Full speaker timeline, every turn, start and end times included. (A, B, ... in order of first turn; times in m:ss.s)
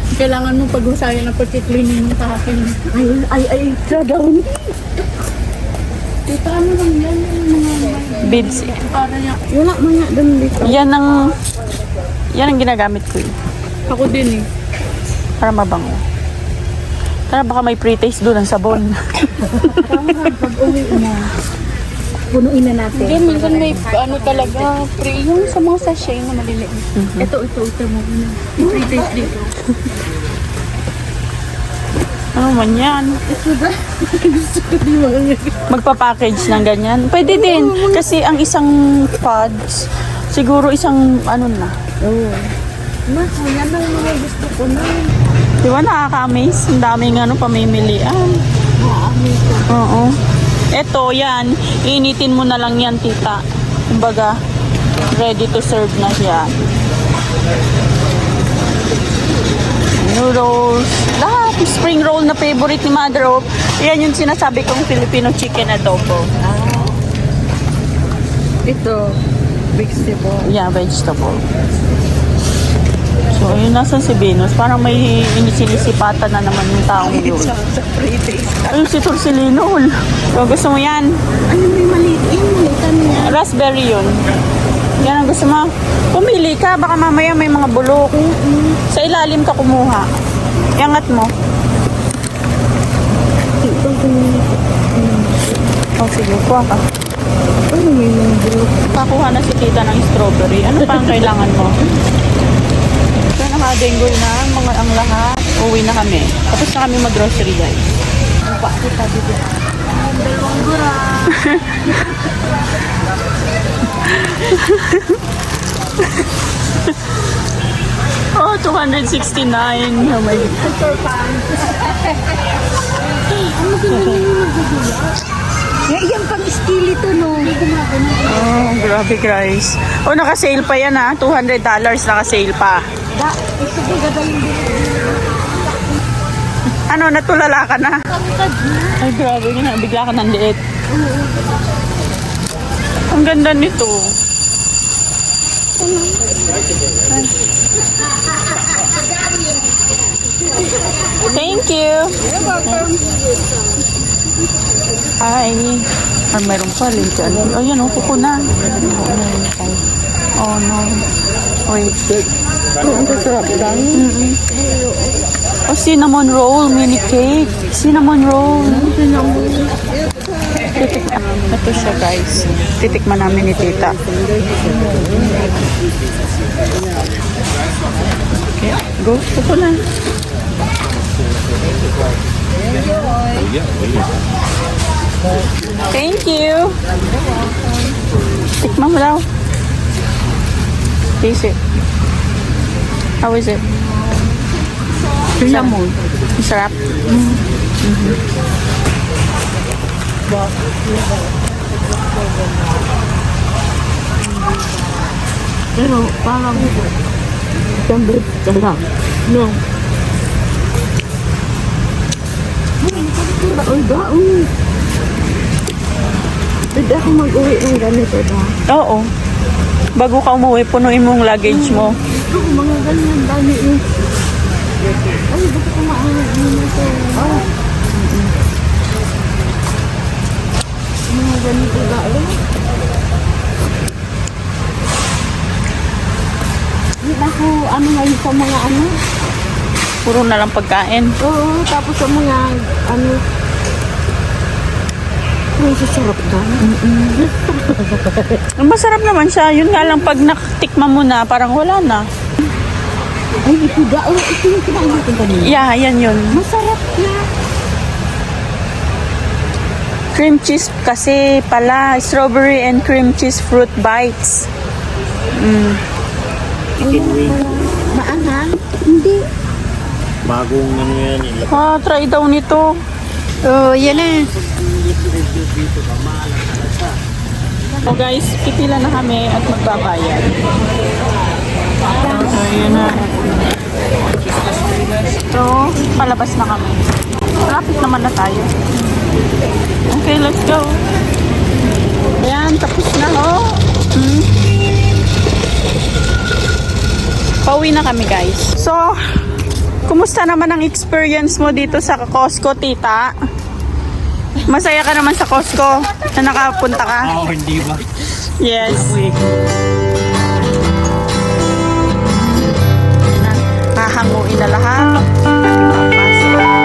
0:00.1-0:02.8 A
0:02.9-0:04.6 B
0:06.3-0:09.4 A
0:08.2-0:08.8 C
0:09.5-0:10.8 B
0:10.6-0:11.3 C
0:12.3-0:13.3 C
0:13.9-0:14.4 A
0:15.4-0:16.0 C
0:17.3-0:20.2 C
0:19.8-0:21.3 A
0:22.3-0:24.9 A
0:22.9-0:26.2 C
0:25.6-0:29.5 A
0:26.9-0:27.3 C
0:28.6-0:29.4 B
0:32.4-0:33.2 C
0:33.3-0:35.5 B
0:35.7-0:41.7 C
0:37.2-0:38.0 B
0:42.0-0:42.4 B
0:43.1-0:45.1 B
0:45.6-0:48.4 C
0:48.8-0:49.6 B
0:49.7-0:50.1 C
0:50.7-0:54.3 C
0:55.1-0:56.5 C
1:00.0-1:06.2 C
1:06.4-1:06.9 B
1:08.7-1:09.1 B
1:09.7-1:10.4 B
1:10.4-1:11.4 C
1:13.3-1:17.6 C
1:17.1-1:18.6 B
1:18.7-1:21.1 C
1:21.5-1:23.3 B
1:23.1-1:24.1 C
1:25.0-1:28.2 C
1:28.1-1:28.8 B
1:28.9-1:30.1 C
1:30.8-1:31.3 C
1:33.6-1:34.4 B
1:36.0-1:36.8 C
1:37.7-1:38.8 B
1:38.9-1:41.8 C
1:43.3-1:47.8 C
1:48.6-1:49.3 B
1:50.0-1:51.2 A
1:51.3-1:51.7 C
1:54.3-1:55.2 C
1:58.3-2:00.7 C
2:03.3-2:05.1 A
2:03.9-2:04.2 B
2:05.9-2:07.5 B
2:07.2-2:08.4 A
2:08.2-2:12.8 C
2:13.2-2:15.6 B
2:16.9-2:18.0 C
2:18.1-2:18.9 B
2:19.0-2:20.6 C
2:20.9-2:21.3 B
2:23.1-2:24.2 C
2:25.8-2:26.2 B
2:31.3-2:32.9 C
2:32.3-2:32.9 B
2:35.2-2:39.1 C
2:38.7-2:39.7 B
2:40.4-2:41.0 C
2:41.7-2:42.0 C
2:42.8-2:44.0 B
2:43.9-2:44.4 C
2:44.5-2:45.2 B
2:45.7-2:49.0 C
2:48.7-2:49.7 B
2:50.7-2:54.0 C
2:54.7-2:55.3 B
2:58.6-2:59.8 C
3:02.8-3:03.2 B
3:05.9-3:06.8 C
3:08.6-3:09.2 C
3:11.2-3:11.6 C
3:13.2-3:13.6 C
3:15.4-3:15.8 C
3:15.4-3:15.9 B
3:16.4-3:16.9 C
3:17.8-3:18.2 C
3:25.8-3:26.7 B
3:27.8-3:28.8 B
3:29.3-3:29.6 B
3:32.8-3:34.5 B
3:36.7-3:38.5 B
3:38.7-3:39.0 C
3:40.0-3:42.0 C
3:41.5-3:43.8 B
3:45.3-3:47.4 B
3:51.1-3:52.4 B
3:57.0-3:58.9 B
4:00.0-4:01.1 C
4:01.2-4:03.2 B
4:05.6-4:08.0 B
4:06.7-4:06.9 C
4:08.6-4:12.0 C
4:13.4-4:15.5 B
4:15.4-4:16.4 C
4:16.3-4:17.2 B
4:20.1-4:24.5 C
4:25.4-4:25.8 C
4:26.8-4:27.4 D
4:26.8-4:29.2 B
4:30.2-4:31.7 D
4:31.5-4:32.7 C
4:33.5-4:34.2 B
4:33.6-4:34.0 A
4:34.5-4:36.9 D
4:37.8-4:40.3 C
4:42.0-4:43.0 A
4:42.1-4:43.1 B
4:42.2-4:43.0 C
4:45.3-4:46.9 C
4:47.4-4:48.5 C
4:49.9-4:50.8 C
4:52.2-4:54.3 C
4:57.4-4:59.0 C
4:59.9-5:03.1 C
5:04.4-5:07.1 C
5:07.0-5:09.2 D
5:08.4-5:09.0 C
5:13.1-5:16.4 C